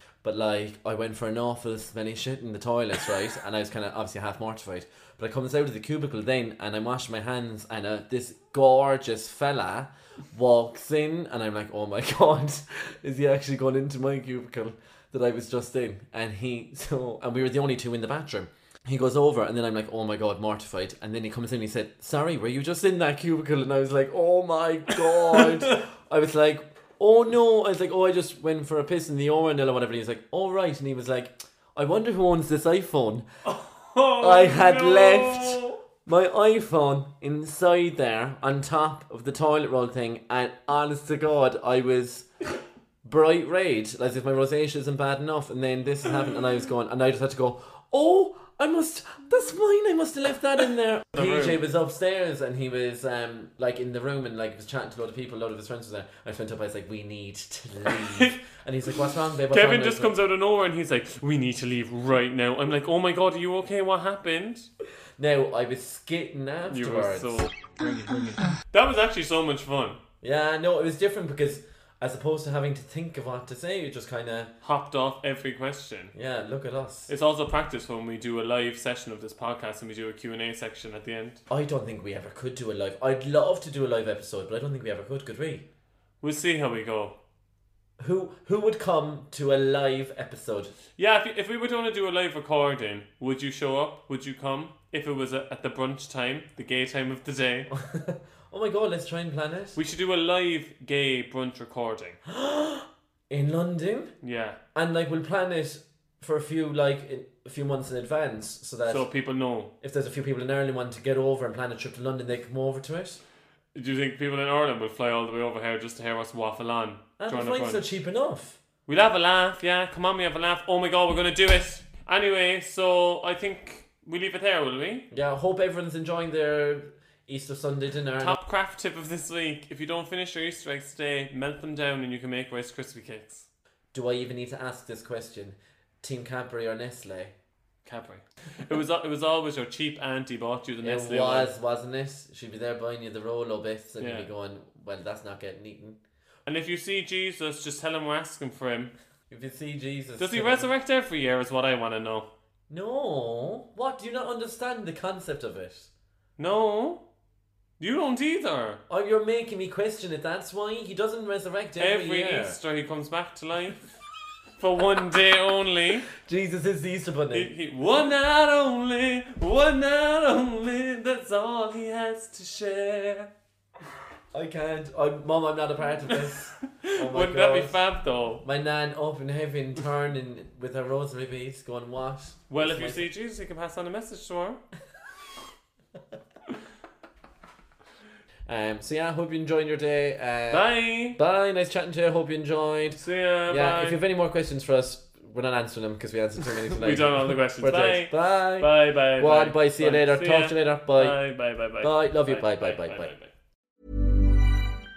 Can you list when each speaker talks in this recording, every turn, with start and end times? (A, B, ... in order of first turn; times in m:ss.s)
0:00.2-0:33.3 A
0:33.4-0:35.8 B
0:34.2-0:42.3 A
0:43.0-1:00.1 A
0:51.1-0:51.6 B
0:57.9-0:58.4 B
0:59.5-1:04.7 B
1:05.2-1:07.5 A
1:06.7-1:10.0 B
1:10.2-1:14.5 A
1:14.6-1:16.1 B
1:16.1-1:17.1 A
1:17.1-1:21.4 B
1:21.5-1:25.7 A
1:26.2-1:27.2 B
1:28.0-1:30.7 A
1:31.0-1:37.7 B
1:37.7-1:39.8 A
1:39.8-1:42.2 B
1:42.3-1:44.1 A
1:44.2-1:44.6 B
1:44.8-1:49.1 A
1:48.9-1:49.7 B
1:49.8-1:53.2 A
1:53.8-1:57.8 B
1:57.2-1:58.6 A
1:58.9-2:05.1 B
2:05.1-2:08.4 A
2:08.2-2:13.5 B
2:13.9-2:17.3 A
2:17.8-2:21.5 B
2:20.8-2:26.0 A
2:24.0-2:24.3 B
2:26.5-2:28.9 B
2:29.3-2:30.7 A
2:30.2-2:32.3 B
2:32.7-2:35.9 A
2:36.4-2:37.0 B
2:37.8-2:38.8 B
2:38.9-2:42.6 A
2:41.8-2:43.8 B
2:44.6-2:46.1 B
2:46.2-2:47.5 A
2:47.3-2:53.3 B
2:54.3-2:57.8 A
2:56.8-2:58.4 B
2:58.4-3:03.1 A
3:02.5-3:04.6 B
3:08.5-3:21.2 A
3:10.5-3:11.2 B
3:13.0-3:14.0 B
3:16.7-3:23.3 B
3:21.8-3:23.1 A